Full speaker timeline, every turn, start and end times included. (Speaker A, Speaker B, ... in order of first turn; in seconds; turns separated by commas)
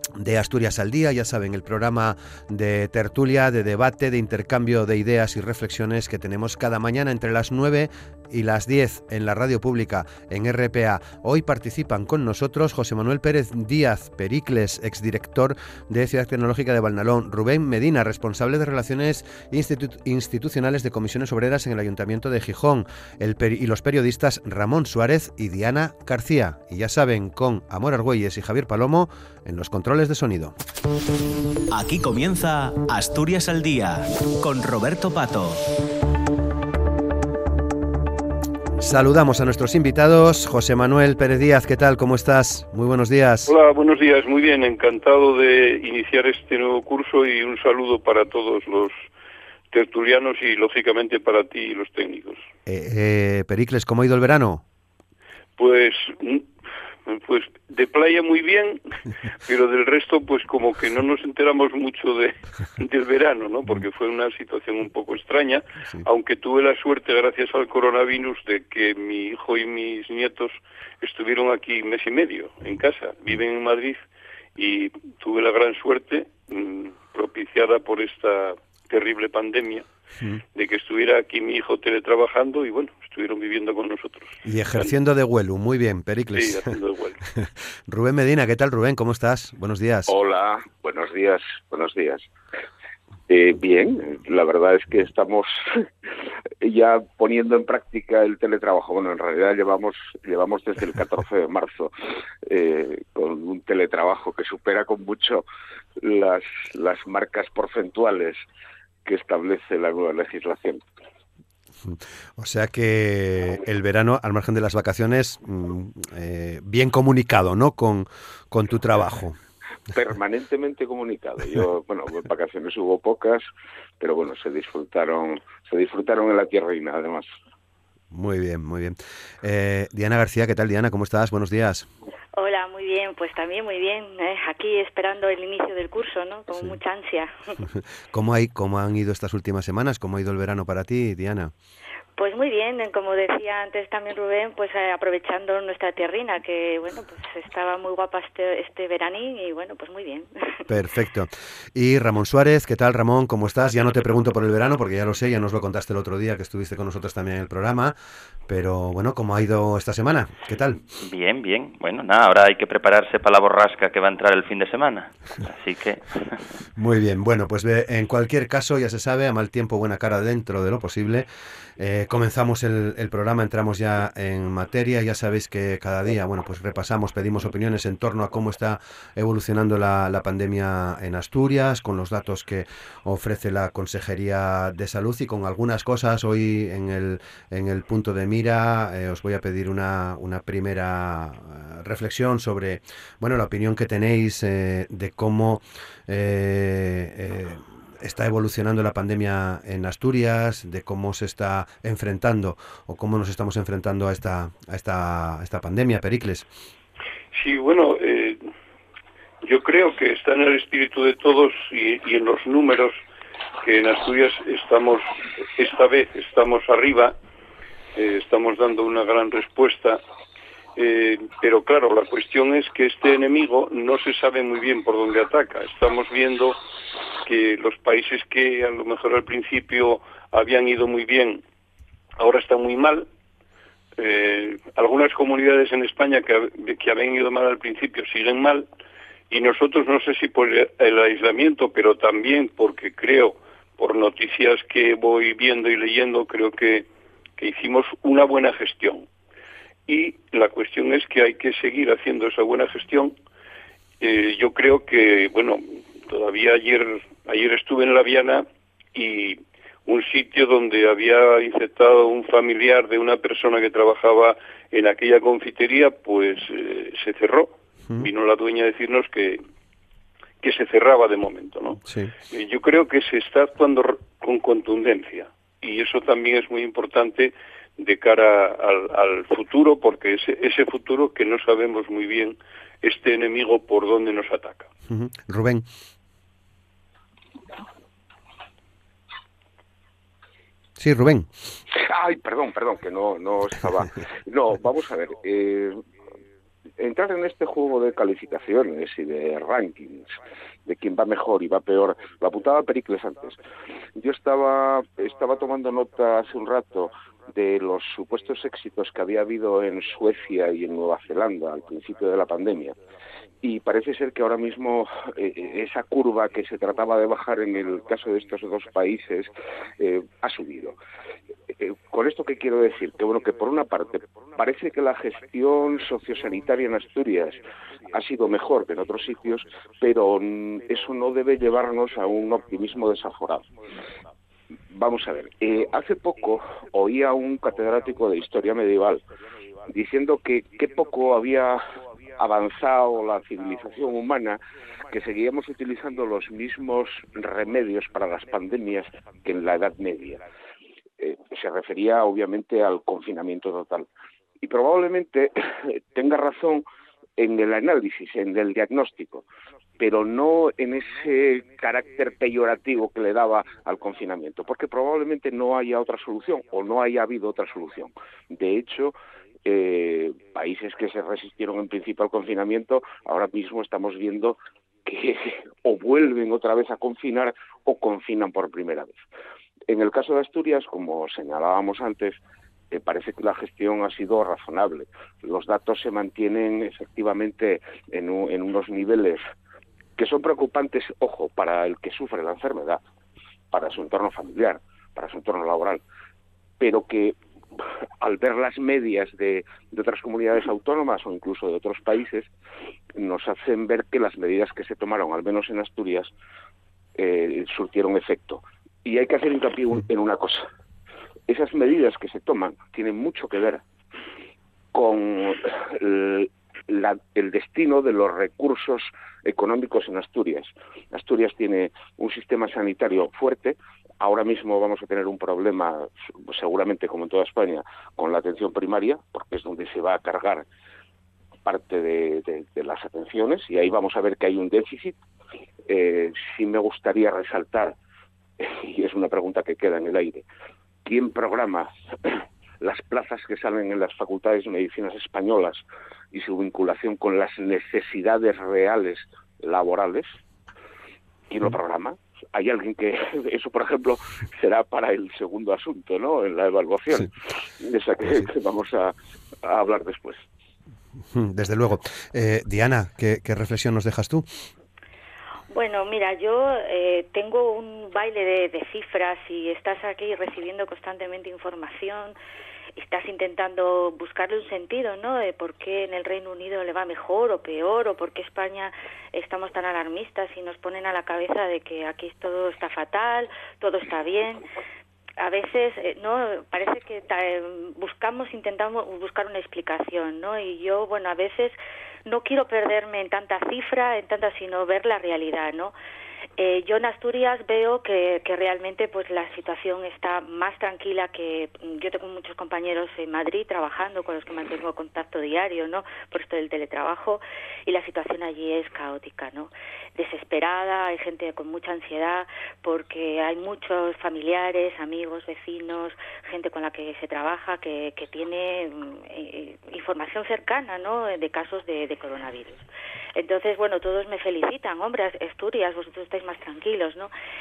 Speaker A: 0.2-30.6, Speaker B: 31.7-35.6, Speaker A: 38.8-43.5, Speaker C: 43.5-48.9, Speaker C: 49.7-52.4, Speaker A: 52.7-54.6, Speaker C: 55.6-56.5, Speaker C: 57.1-58.8, Speaker C: 59.5-79.9, Speaker C: 80.5-84.9, Speaker A: 84.5-86.8, Speaker C: 86.4-87.2, Speaker A: 87.4-90.1, Speaker D: 90.1-92.3, Speaker D: 93.3-95.9, Speaker D: 96.6-101.9, Speaker D: 102.4-105.5, Speaker D: 106.0-108.4, Speaker D: 109.0-110.8, Speaker A: 111.8-119.4, Speaker D: 119.9-123.5, Speaker D: 124.0-127.3, Speaker A: 128.1-131.9, Speaker E: 132.3-137.6, Speaker A: 138.1-141.5, Speaker E: 142.2-150.7, Speaker A: 150.7-157.9, Speaker A: 158.5-160.8, Speaker F: 161.0-166.4, Speaker A: 166.8-171.3, Speaker A: 171.8-206.5, Speaker C: 207.3-208.5, Speaker C: 209.4-213.0, Speaker C: 213.6-217.2, Speaker C: 217.9-220.0, Speaker C: 220.8-226.6, Speaker C: 227.2-231.4, Speaker C: 232.2-233.1, Speaker C: 234.0-238.7, Speaker C: 239.3-249.1, Speaker C: 249.9-253.2, Speaker C: 254.0-269.4, Speaker C: 270.4-284.7, Speaker A: 271.9-272.1, Speaker A: 284.9-285.7, Speaker A: 290.8-291.3, Speaker D: 291.7-295.8, Speaker D: 296.8-300.2, Speaker D: 300.7-303.4, Speaker D: 304.0-312.8, Speaker D: 313.4-320.8, Speaker D: 321.6-327.4, Speaker D: 327.9-333.5, Speaker D: 334.7-339.1, Speaker D: 339.7-341.6, Speaker D: 342.2-344.4, Speaker D: 344.9-350.2, Speaker D: 351.0-353.9, Speaker D: 354.4-356.6, Speaker D: 357.2-359.3, Speaker D: 359.8-379.0, Speaker D: 379.7-382.2, Speaker D: 382.7-389.2, Speaker D: 390.0-392.8, Speaker D: 393.5-395.8, Speaker D: 396.6-402.3, Speaker D: 403.0-406.1, Speaker D: 407.0-410.5, Speaker D: 411.3-413.6, Speaker D: 414.7-430.5, Speaker D: 431.4-435.0, Speaker D: 435.7-437.8, Speaker D: 438.4-440.2, Speaker D: 440.9-450.1, Speaker D: 451.3-460.2, Speaker A: 461.1-464.3, Speaker E: 465.5-472.2, Speaker E: 472.8-484.4, Speaker E: 485.2-495.7, Speaker E: 496.4-527.1